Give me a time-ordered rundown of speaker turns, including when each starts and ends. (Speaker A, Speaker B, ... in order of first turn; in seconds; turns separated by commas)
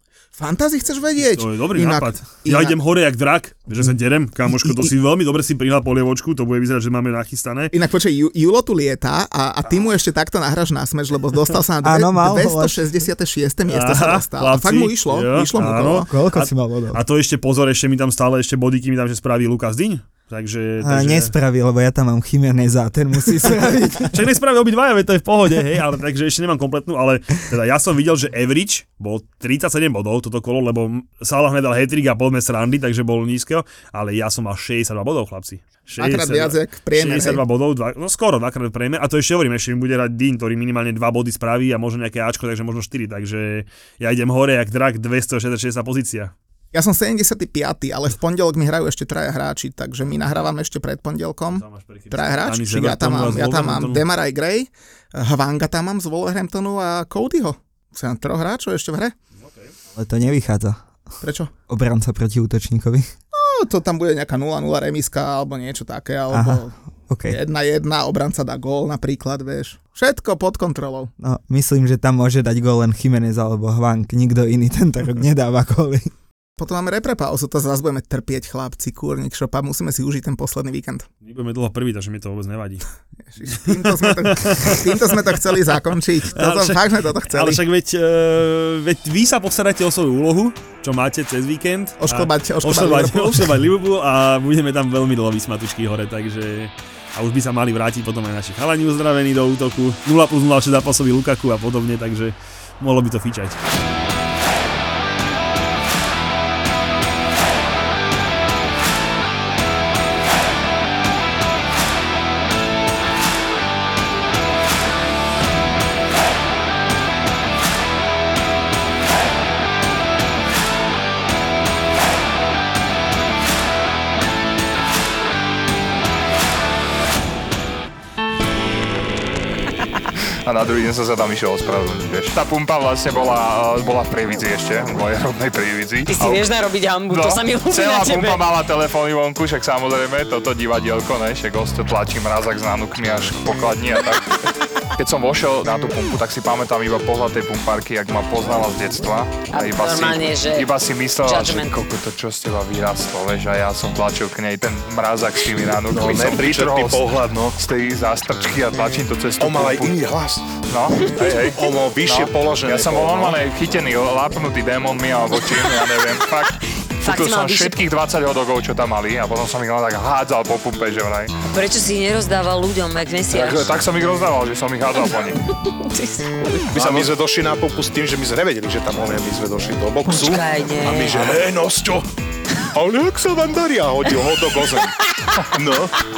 Speaker A: 0.4-2.8, Speaker B: 1.2-7.7, Speaker A: 7.7-16.1, Speaker C: 11.8-12.8, Speaker B: 13.7-21.3, Speaker C: 16.1-17.0, Speaker C: 20.8-24.2, Speaker B: 24.1-46.3, Speaker A: 36.0-37.4, Speaker A: 46.7-59.1, Speaker B: 51.5-54.0, Speaker B: 59.4-59.7, Speaker C: 60.0-60.9, Speaker A: 61.2-61.5, Speaker C: 61.7-63.1, Speaker A: 63.3-66.7, Speaker C: 66.3-67.4, Speaker A: 67.3-71.1, Speaker C: 71.2-76.1, Speaker A: 76.6-81.1, Speaker B: 81.2-82.8, Speaker A: 83.3-87.6, Speaker B: 83.5-85.6, Speaker B: 86.3-103.6, Speaker A: 92.0-93.5, Speaker D: 130.4-136.5, Speaker E: 136.1-138.4, Speaker D: 137.1-144.4, Speaker D: 145.0-160.1, Speaker E: 149.5-150.7, Speaker E: 151.2-151.7, Speaker F: 155.9-157.6, Speaker F: 159.4-163.4, Speaker D: 160.7-171.3, Speaker E: 167.0-167.8, Speaker E: 171.5-173.8, Speaker D: 173.3-175.5, Speaker F: 176.4-182.1, Speaker D: 176.7-177.2, Speaker E: 180.1-181.4, Speaker D: 182.8-183.1, Speaker F: 182.8-184.9, Speaker F: 185.5-185.9